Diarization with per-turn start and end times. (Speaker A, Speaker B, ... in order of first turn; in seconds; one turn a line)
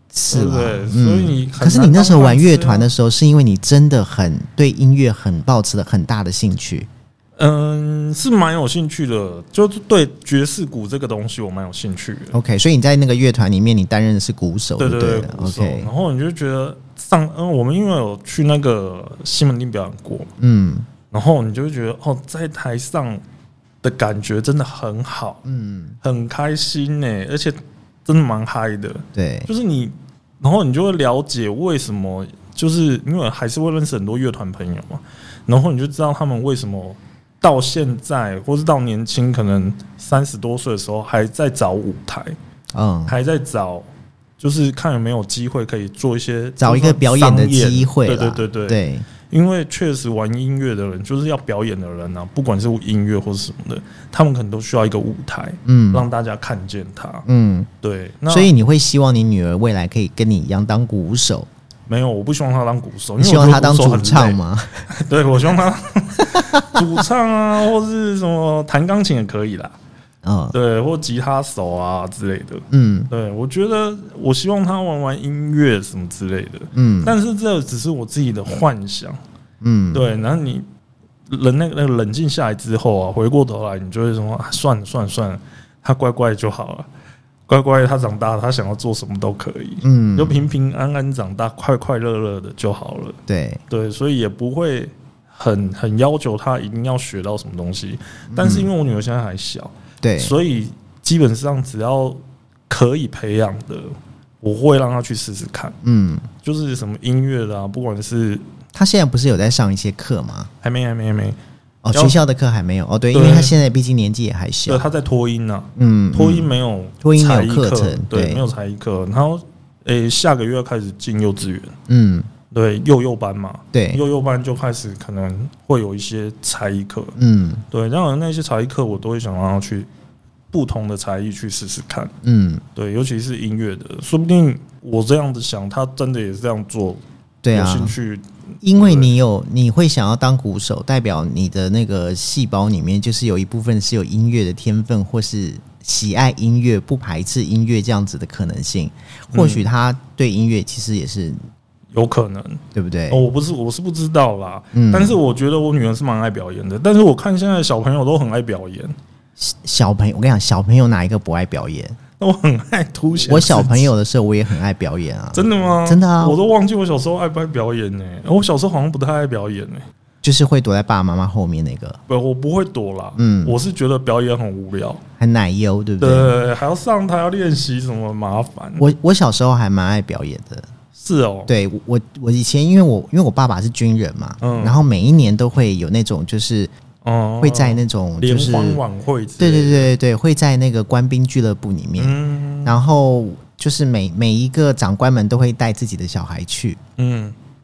Speaker A: 0.1-6.9
Speaker B: 0.3-2.9
Speaker B: 7.4-12.3
Speaker A: 12.3-15.9
Speaker B: 14.8-20.3
Speaker A: 20.4-20.9
Speaker B: 21.1-23.2
Speaker B: 23.8-25.4
Speaker A: 25.4-25.9
Speaker B: 26.0-42.3
Speaker A: 29.1-29.5
Speaker A: 42.7-43.2
Speaker B: 43.1-43.9
Speaker B: 44.4-57.2
Speaker A: 46.6-49.0
Speaker A: 55.6-56.0
Speaker A: 57.2-57.7
Speaker B: 57.8-58.5
Speaker A: 58.3-61.5
Speaker B: 61.9-69.8
Speaker A: 63.2-64.9
Speaker A: 66.3-67.0
Speaker A: 70.2-70.5
Speaker B: 70.5-79.2
Speaker A: 72.7-73.1
Speaker A: 76.7-77.1
Speaker A: 79.6-80.1
Speaker B: 79.9-80.7
Speaker B: 81.3-86.9
Speaker B: 87.5-93.2
Speaker A: 89.8-90.4
Speaker A: 93.3-93.6
Speaker B: 93.7-105.8
Speaker A: 98.3-98.7
Speaker A: 100.0-100.3
Speaker A: 105.8-106.3
Speaker B: 106.4-108.4
Speaker A: 108.7-110.5
Speaker B: 110.6-111.4
Speaker A: 111.8-114.8
Speaker B: 113.1-113.6
Speaker B: 114.7-121.7
Speaker A: 115.8-118.4
Speaker A: 121.9-122.3
Speaker B: 122.5-127.2
Speaker A: 123.7-124.0
Speaker A: 127.2-127.6
Speaker B: 127.7-129.9
Speaker B: 130.5-132.1
Speaker A: 132.2-132.6
Speaker B: 132.7-139.2
Speaker A: 137.4-137.9
Speaker A: 138.6-151.4
Speaker B: 149.3-149.7
Speaker B: 151.9-158.9
Speaker A: 152.7-153.2
Speaker A: 154.7-155.2
Speaker A: 159.4-162.0
Speaker B: 162.2-163.9
Speaker A: 163.2-166.4
Speaker B: 165.3-169.8
Speaker A: 170.2-172.0
Speaker B: 172.1-175.0
Speaker A: 173.2-173.6
Speaker A: 175.2-176.3
Speaker B: 176.0-178.9
Speaker A: 178.8-180.7
Speaker B: 180.9-181.5
Speaker A: 181.5-186.7
Speaker B: 184.4-184.8
Speaker B: 187.0-189.9
Speaker A: 187.4-188.8
Speaker A: 189.4-196.8
Speaker B: 192.0-192.8
Speaker B: 197.0-197.3